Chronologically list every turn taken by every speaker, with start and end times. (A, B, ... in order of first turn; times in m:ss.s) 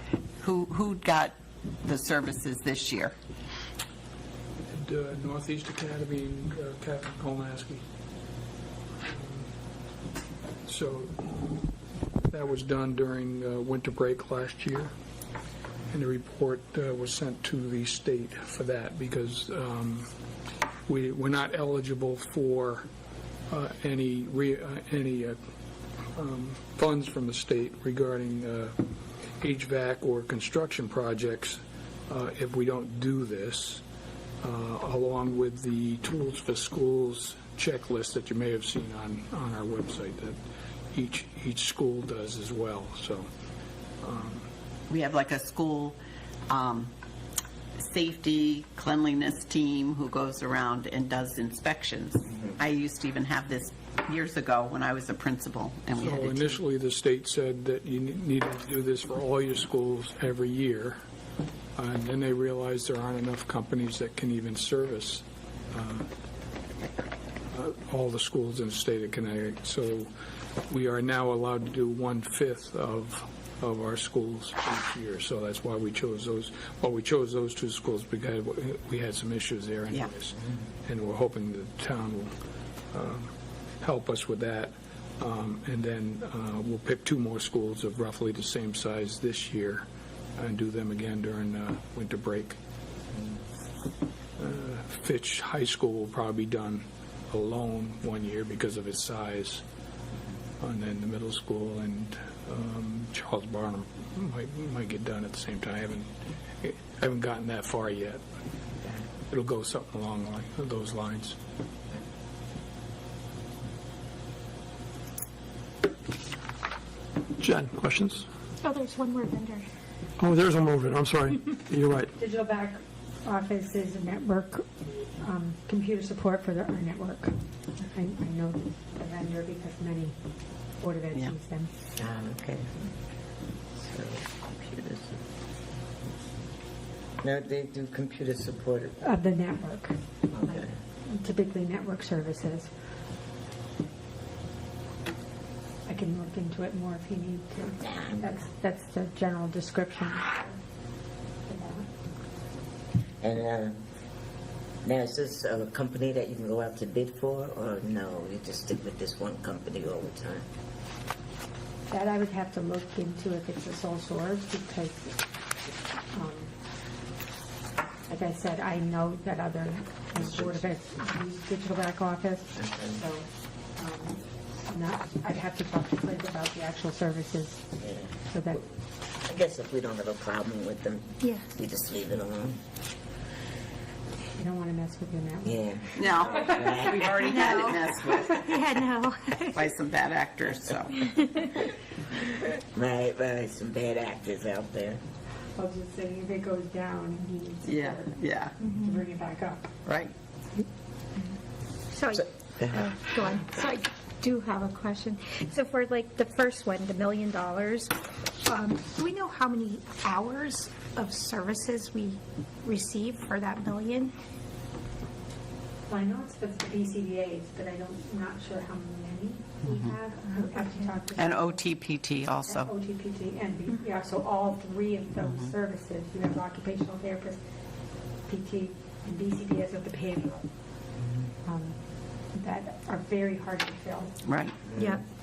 0:00.4-0:03.1 A
0:04.7-0:07.8 B
0:09.0-0:09.5 B
0:10.6-0:11.4 B
0:12.3-0:14.9 B
0:15.9-0:20.1 B
0:20.9-0:22.9 B
0:23.5-0:25.4 B
0:26.2-0:28.8 B
0:29.4-0:33.8 B
0:34.4-0:40.4 B
0:40.9-0:43.3 B
0:44.0-0:44.5 B
0:44.9-0:46.0 A
0:46.5-0:46.9 A
0:47.8-0:56.6 A
0:56.0-1:01.0 B
1:01.8-1:06.1 B
1:07.5-1:10.1 B
1:10.7-1:22.3 B
1:22.9-1:32.6 B
1:34.4-1:39.6 B
1:40.6-1:48.2 B
1:49.3-1:51.4 B
1:57.4-1:58.2 C
1:58.6-1:59.7 D
2:00.2-2:02.1 C
2:02.2-2:10.2 E
2:10.8-2:11.7 E
2:12.0-2:12.8 F
2:13.8-2:15.2 F
2:17.2-2:19.0 F
2:19.0-2:22.7 E
2:20.3-2:20.7 F
2:25.8-2:30.6 E
2:27.8-2:28.4 F
2:31.5-2:31.9 E
2:33.2-2:33.8 F
2:34.8-2:40.5 F
2:41.9-2:45.2 E
2:46.1-2:46.5 E
2:48.1-2:57.7 E
2:50.2-2:50.7 F
2:57.8-2:58.1 F
2:58.3-2:58.6 E
2:59.2-3:02.6 F
3:01.2-3:01.5 D
3:04.4-3:07.1 E
3:05.4-3:07.2 F
3:06.0-3:08.7 A
3:07.2-3:09.7 D
3:09.5-3:11.1 A
3:11.0-3:11.5 D
3:12.7-3:15.0 F
3:15.6-3:19.7 E
3:17.6-3:18.5 A
3:18.6-3:19.0 D
3:19.8-3:20.1 A
3:21.9-3:27.9 D
3:28.4-3:34.1 D
3:35.9-3:41.7 E
3:39.7-3:39.9 A
3:40.4-3:40.9 D
3:41.2-3:42.7 A
3:42.5-3:47.4 E
3:45.2-3:45.5 A
3:48.3-3:50.4 E
3:51.4-3:51.8 E
3:52.3-3:54.2 E
3:54.2-3:54.6 A
3:54.8-3:55.0 D